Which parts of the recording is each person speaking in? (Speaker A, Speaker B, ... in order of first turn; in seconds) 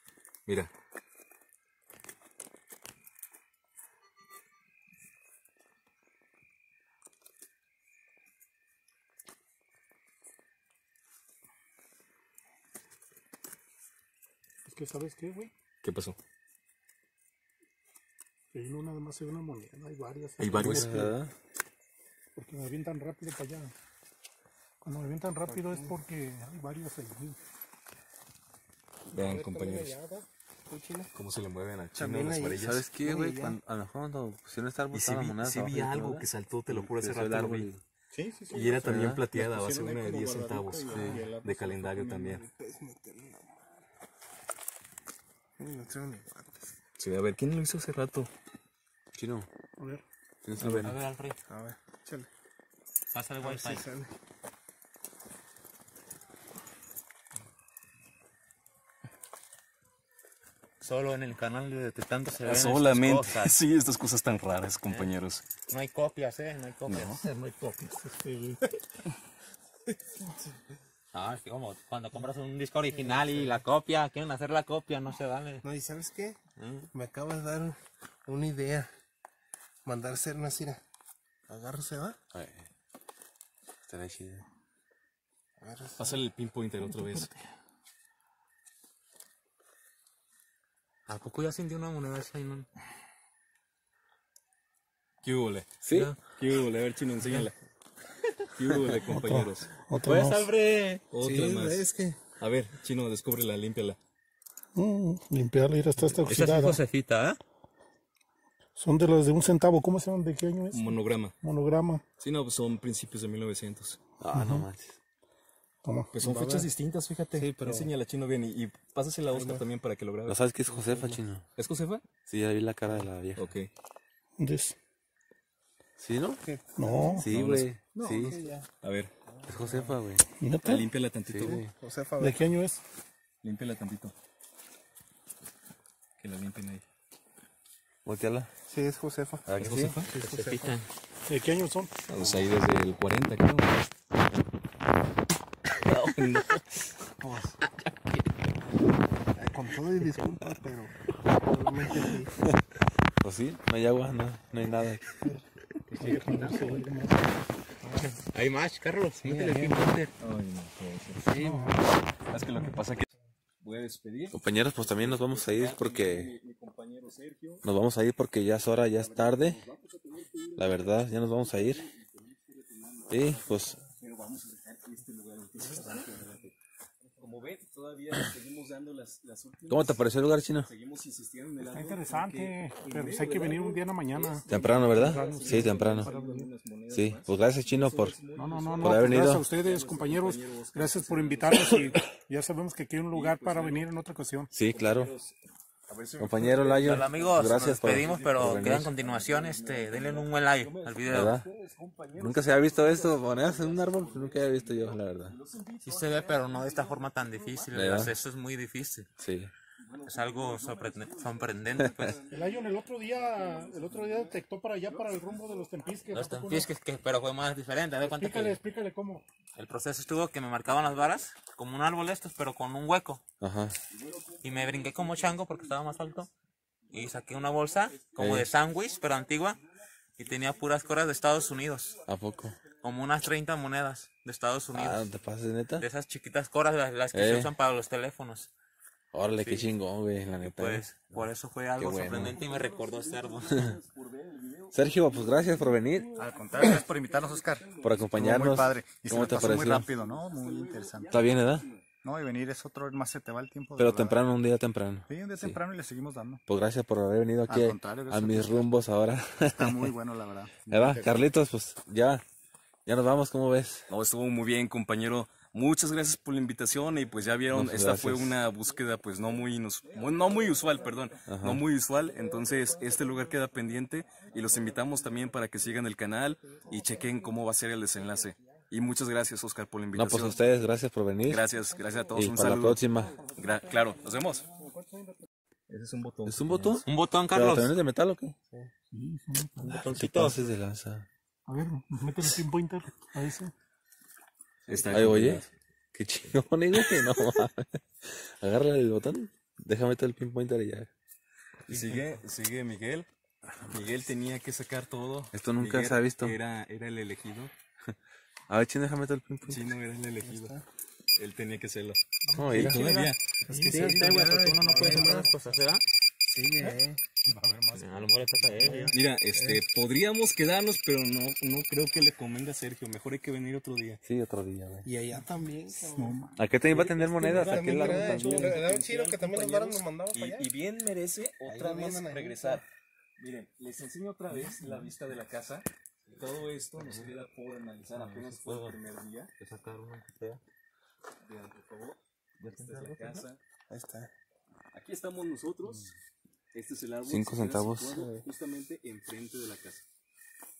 Speaker A: 14.6-15.5, 18.5-21.1, 22.4-23.7, 24.8-27.4, 29.1-30.2, 38.1-42.2, 49.8-50.0, 67.2-68.6, 87.0-87.3, 99.0-100.5, 104.7-106.8, 108.8-110.9, 111.4-112.0, 114.3-114.7, 115.8-116.1, 124.4-124.8, 126.8-127.3, 128.0-128.3, 130.3-130.9, 132.2-132.8, 141.3-141.9, 155.9-157.2, 161.3-161.8, 162.6-162.8, 181.6-186.5, 188.3-194.5, 212.3-216.7, 218.0-219.2, 283.1-283.6, 284.5-285.2, 288.9-290.2, 291.4-293.5, 312.2-315.3, 316.6-319.0, 325.9-326.4
Speaker B: 15.8-16.2, 20.4-21.1, 29.1-30.0, 31.1-32.8, 34.9-37.7, 38.5-42.4, 47.0-48.3, 50.6-50.9, 62.4-65.4, 86.0-87.3, 95.2-95.7, 96.3-97.5, 98.5-99.7, 101.1-104.0, 110.7-111.3, 112.2-114.0, 116.1-120.4, 121.6-122.0, 123.3-123.7, 127.3-127.7, 128.8-129.1, 130.6-131.6, 133.4-134.1, 136.2-136.8, 139.6-140.1, 142.1-143.8, 145.8-146.6, 160.2-161.2, 162.3-163.1, 163.6-167.6, 168.9-176.5, 177.2-192.1, 193.1-193.9, 194.7-195.3, 195.9-208.0, 209.8-215.9, 223.9-225.2, 241.9-251.8, 263.9-280.4, 281.2-284.5, 285.7-286.9, 294.7-295.5, 301.7-303.1, 303.6-307.5, 309.4-310.6, 311.1-313.2, 318.9-324.0, 326.5-332.6, 333.2-339.3, 341.2-343.4, 344.7-345.9, 346.5-349.8
Speaker C: 20.5-21.3, 32.6-37.8, 38.8-39.2, 40.9-41.2, 49.1-49.5, 50.4-51.0, 82.3-82.7, 83.9-84.4, 95.8-96.1, 114.2-115.0, 120.2-121.5, 122.3-123.5, 126.0-126.4, 127.2-128.4, 129.5-130.3, 131.3-131.7, 138.0-138.5, 139.4-140.0, 153.2-155.2, 164.3-166.3, 167.6-169.6, 170.6-171.9, 173.1-173.8, 179.7-180.7, 184.5-186.1, 186.9-188.2, 188.8-189.5, 194.5-195.1, 196.2-198.9, 201.1-201.5, 202.1-205.3, 207.7-208.1, 209.2-209.5, 223.4-223.8, 228.2-228.5, 232.1-232.6, 234.7-235.8, 237.1-237.5, 239.1-242.4, 243.5-243.8, 244.7-246.1, 247.8-249.9, 251.1-251.7, 253.8-255.6, 256.5-259.9, 260.7-262.2, 262.9-263.9, 267.5-268.4, 271.2-271.6, 279.9-281.4, 282.1-283.2, 286.2-288.3, 289.6-291.1, 294.9-300.9, 305.3-306.4, 308.5-309.7, 312.4-312.9, 324.0-324.9, 326.3-328.6, 347.1-348.2
Speaker D: 25.4-25.9, 29.2-29.6, 30.7-31.1, 31.9-33.6, 40.9-41.3, 42.1-43.6, 45.6-46.7, 51.5-52.3, 53.4-54.1, 73.0-73.5, 75.6-76.4, 76.9-78.9, 79.8-80.8, 81.5-82.2, 85.6-86.2, 101.2-102.2, 116.2-116.7, 117.3-117.9, 119.3-119.6, 120.7-121.2, 126.4-127.3, 128.0-128.7, 129.3-130.0, 131.3-132.5, 138.7-139.5, 140.1-140.7, 147.2-147.6, 149.3-152.4, 157.8-158.1, 159.2-159.9, 161.2-161.9, 276.7-277.1, 283.1-283.7, 310.2-310.6, 313.5-315.3, 316.2-317.0, 319.3-319.6, 324.8-326.2, 327.2-330.5, 331.4-332.6, 343.7-344.1
Speaker E: 50.8-51.4, 53.1-53.8, 60.8-63.5, 65.7-67.2, 71.1-75.6, 76.6-76.9, 91.0-92.7, 95.9-96.2, 100.0-101.0, 106.3-107.4, 140.1-140.9, 155.9-156.9, 158.0-160.1, 175.6-176.1, 196.8-201.4, 205.8-209.1, 210.1-212.2, 216.1-218.6, 219.5-223.2, 224.4-226.3, 226.9-229.6, 230.2-232.0, 232.8-235.1, 235.8-238.5, 239.4-239.7, 240.4-243.7, 286.9-287.7, 289.6-290.4, 313.6-315.8, 317.7-318.9, 336.8-337.1, 337.9-338.8, 339.4-340.4, 342.4-343.2
Speaker F: 246.1-251.1, 252.0-254.2, 255.1-256.4, 257.5-258.7, 259.5-261.1